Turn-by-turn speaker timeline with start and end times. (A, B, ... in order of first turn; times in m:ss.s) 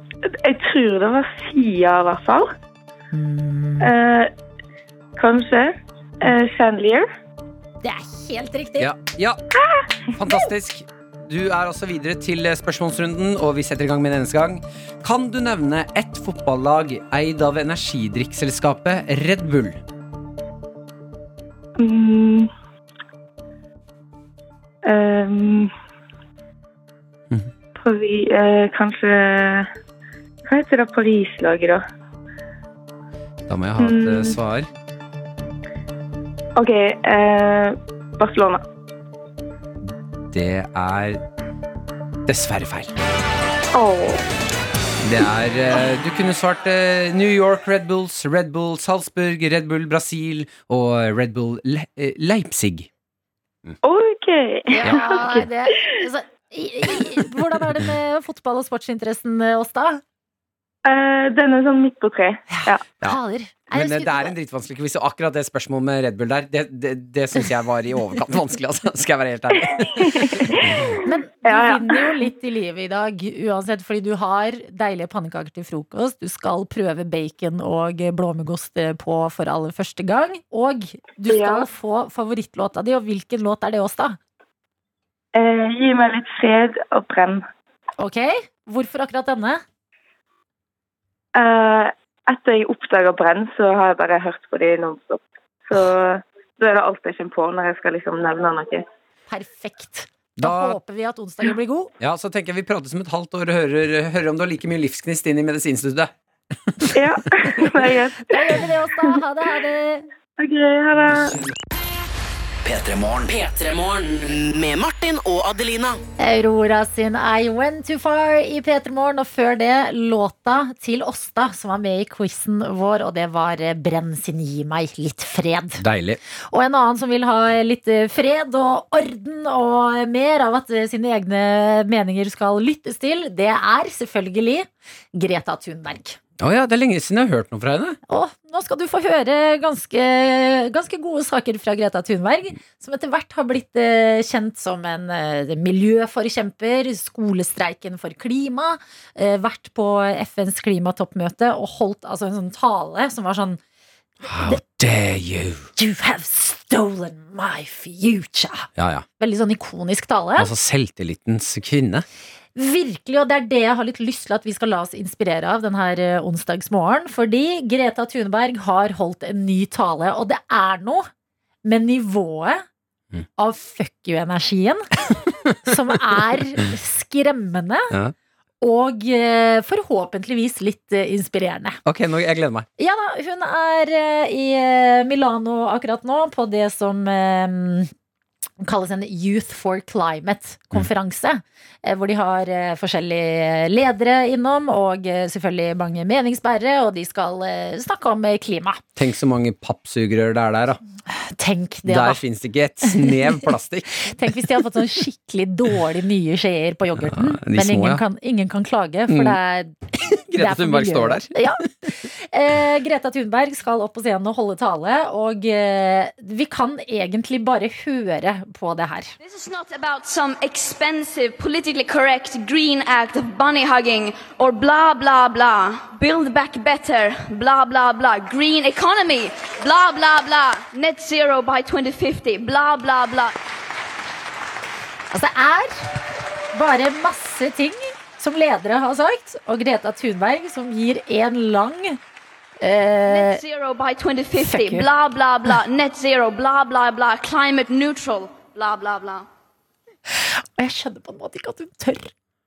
0:00.3-0:02.5 A
0:03.1-0:03.9 B
0:03.8-0:04.3 A
0:05.2-0:07.1 A
0:07.8-0:08.9 B
0:08.8-0:09.4 C
0:10.1-0:19.8 C
0:21.8-0:22.5 A
0:24.8-0:25.7 A
0:27.8-0:29.7 A
0:30.5-0:31.8 A
0:33.5-0:34.7 C
0:33.8-0:34.4 A
0:36.6-0:38.6 A
0:40.3-0:41.2 C
0:42.3-0:43.0 C
0:43.7-0:44.2 A
0:45.0-0:52.9 C
0:53.8-0:55.5 A
0:54.7-1:00.0 B
1:00.8-1:02.8 A
1:02.5-1:04.3 B
1:03.7-1:10.6 C
1:09.8-1:12.1 A
1:11.0-1:24.2 B
1:21.3-1:21.7 A
1:25.4-1:27.4 A
1:28.0-1:29.6 B
1:31.4-1:38.9 A
1:39.3-1:41.9 B
1:40.4-1:40.8 C
1:42.0-1:46.1 C
1:46.9-1:48.6 A
1:48.3-1:50.1 B
1:50.4-1:51.4 A
1:52.6-1:56.0 D
1:56.2-2:05.8 B
2:05.8-2:06.2 C
2:06.5-2:16.2 B
2:16.4-2:18.0 C
2:18.1-2:33.6 B
2:34.2-2:35.7 C
2:35.8-2:38.7 B
2:38.8-2:39.0 C
2:39.2-2:40.5 B
2:40.4-2:42.0 C
2:42.6-2:51.1 B
2:51.6-2:52.6 B
2:53.4-2:54.9 B
2:55.5-2:57.9 B
2:58.6-3:01.8 B
3:01.8-3:02.7 C
3:02.8-3:07.9 B
3:08.6-3:18.8 B
3:19.0-3:20.8 C
3:21.1-3:22.2 B
3:21.9-3:24.3 C
3:22.9-3:23.4 B
3:24.0-3:29.7 B
3:27.0-3:28.0 C
3:29.1-3:29.4 C
3:29.9-3:31.6 C
3:30.4-3:39.1 B
3:39.2-3:53.4 E
3:55.1-3:55.9 B
3:56.5-4:02.0 B
4:02.6-4:03.4 B
4:03.1-4:09.3 E
4:04.4-4:04.9 B
4:10.6-4:12.1 B